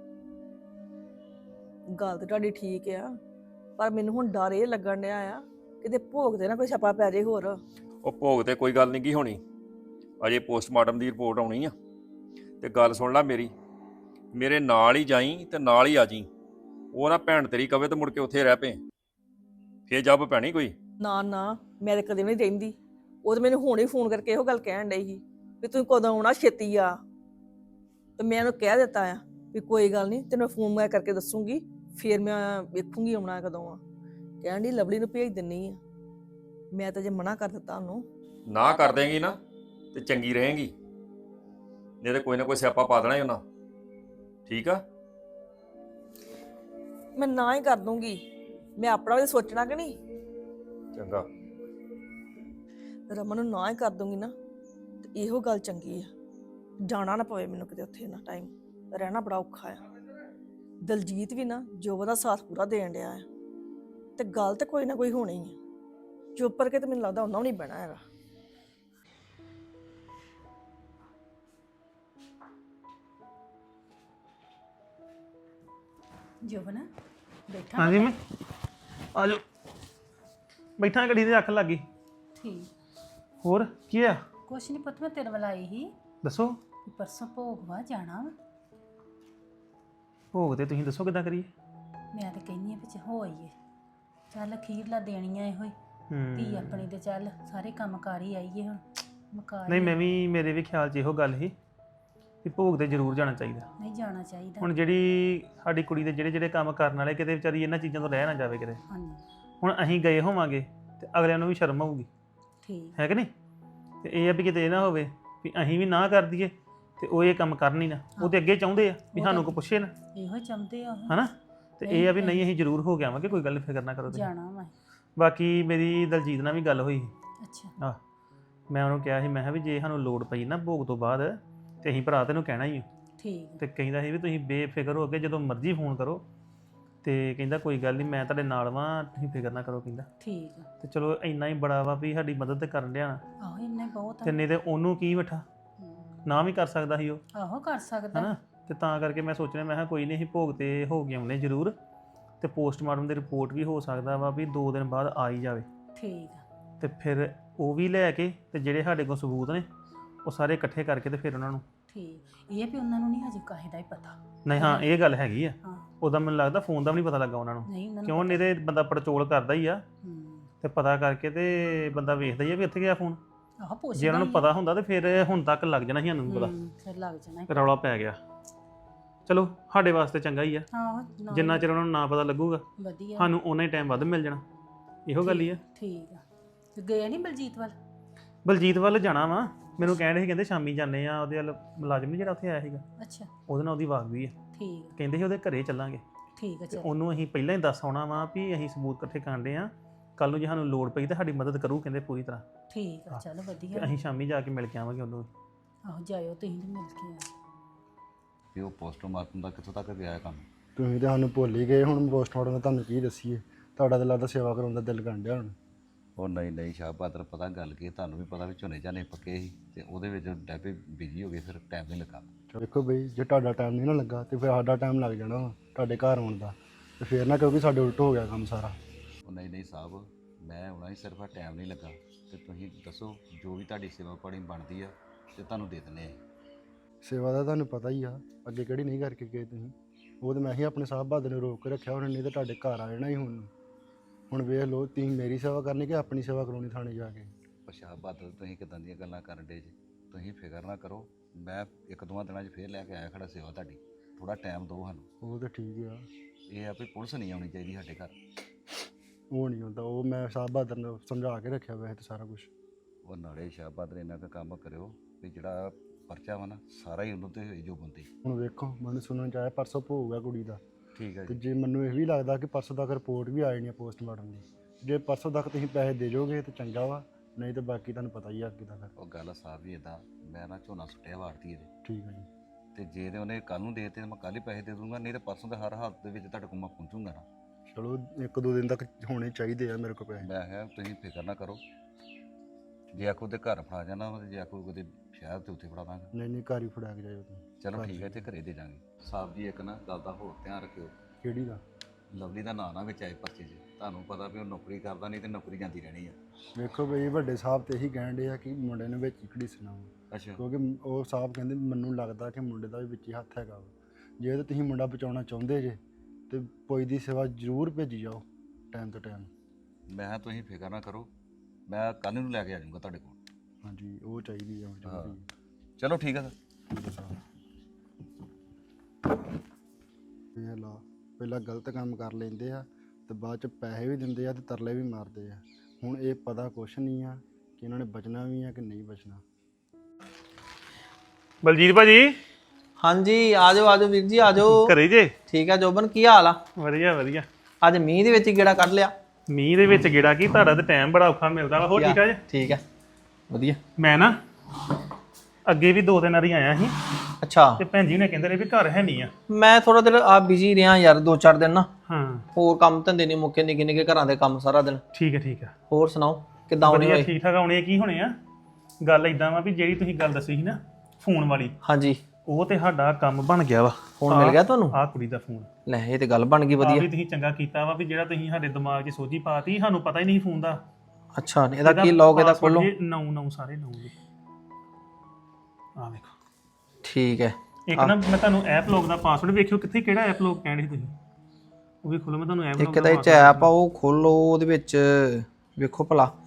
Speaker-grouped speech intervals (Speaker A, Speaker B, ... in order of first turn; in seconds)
Speaker A: 2.0-3.1, 3.8-7.6, 21.0-27.0, 28.2-33.8, 34.4-35.8, 36.7-38.0, 47.1-48.2, 48.8-50.0, 53.1-54.3, 55.1-56.1, 56.8-59.8, 60.8-63.2, 64.2-65.6, 66.3-68.0
Speaker B: 8.0-9.4, 10.2-11.7, 12.6-13.5, 14.3-16.3, 16.9-18.8, 19.9-20.7, 38.5-39.4, 39.9-40.7, 42.0-43.4, 44.5-44.8, 50.9-51.2
Speaker C: 76.4-76.9, 77.5-78.1, 82.4-82.7, 84.5-85.9, 86.8-88.3, 92.1-93.5, 94.3-95.7, 96.3-100.0, 103.8-104.7, 108.9-109.2, 112.6-113.0, 119.1-121.2, 121.8-122.4, 124.1-124.7, 127.4-127.7, 133.2-133.6, 140.2-140.7, 143.4-144.3, 145.8-146.1, 147.3-148.3, 155.9-156.4, 161.9-164.9, 165.6-165.9, 167.7-168.4, 170.0-170.5, 173.6-174.5, 176.3-177.5, 180.7-181.7, 182.8-183.3, 185.2-186.2, 186.7-187.7, 193.0-193.3, 194.5-194.9, 196.4-196.9, 202.7-203.9, 205.8-207.3
Speaker D: 77.8-78.1, 79.1-79.4, 80.8-81.8, 83.4-84.2, 86.2-86.6, 90.3-91.5, 96.1-96.8, 99.7-101.5, 102.4-103.7, 104.6-108.8, 109.6-112.1, 113.0-113.3, 114.0-119.9, 121.1-124.3, 125.2-127.1, 128.7-132.9, 133.6-136.2, 137.0-140.1, 140.8-143.2, 144.2-145.4, 146.2-147.2, 148.1-151.8, 152.4-155.7, 156.8-159.7, 160.2-161.6, 164.4-169.8, 170.6-173.2, 173.9-176.5, 177.5-178.2, 179.3-180.7, 181.3-182.6, 183.2-184.4, 185.1-185.6, 188.4-192.8, 193.5-194.3, 195.0-196.0, 196.7-202.4, 203.1-205.3, 341.4-342.1, 344.4-345.1, 346.6-347.2, 349.3-352.2, 353.8-354.2, 355.4-356.8, 357.6-359.1, 361.9-362.2, 364.9-365.5, 366.6-368.1, 368.8-371.5, 372.2-375.5, 376.6-380.6, 381.6-383.9, 385.8-386.1, 387.7-390.9, 391.8-393.5
Speaker E: 208.5-210.4, 216.2-222.3, 229.2-236.2, 247.7-255.1, 256.5-258.1, 263.0-268.1, 270.9-271.3, 278.9-281.7, 282.7-287.2, 290.2-291.6, 292.9-296.1, 297.6-300.9, 302.1-306.2, 310.1-310.4, 319.9-321.1, 321.7-323.2, 324.8-325.1, 325.8-326.3
Speaker F: 210.8-215.5, 222.5-228.8, 237.0-243.5, 244.3-247.3, 255.2-256.0, 259.3-262.5, 268.2-270.6, 271.2-278.9, 281.8-282.3, 287.7-290.3, 296.1-298.2, 301.2-301.6, 306.5-315.8, 316.3-319.3, 323.6-325.2, 326.7-327.1, 330.4-339.2
Speaker G: 342.8-344.7, 345.3-346.4, 347.6-348.9, 351.7-352.6, 353.3-353.6, 357.2-357.6, 359.3-361.7, 362.4-364.8, 365.7-367.1, 371.6-372.0, 374.0-374.8, 375.6-376.9, 381.1-382.7, 386.8-387.9, 392.6-396.1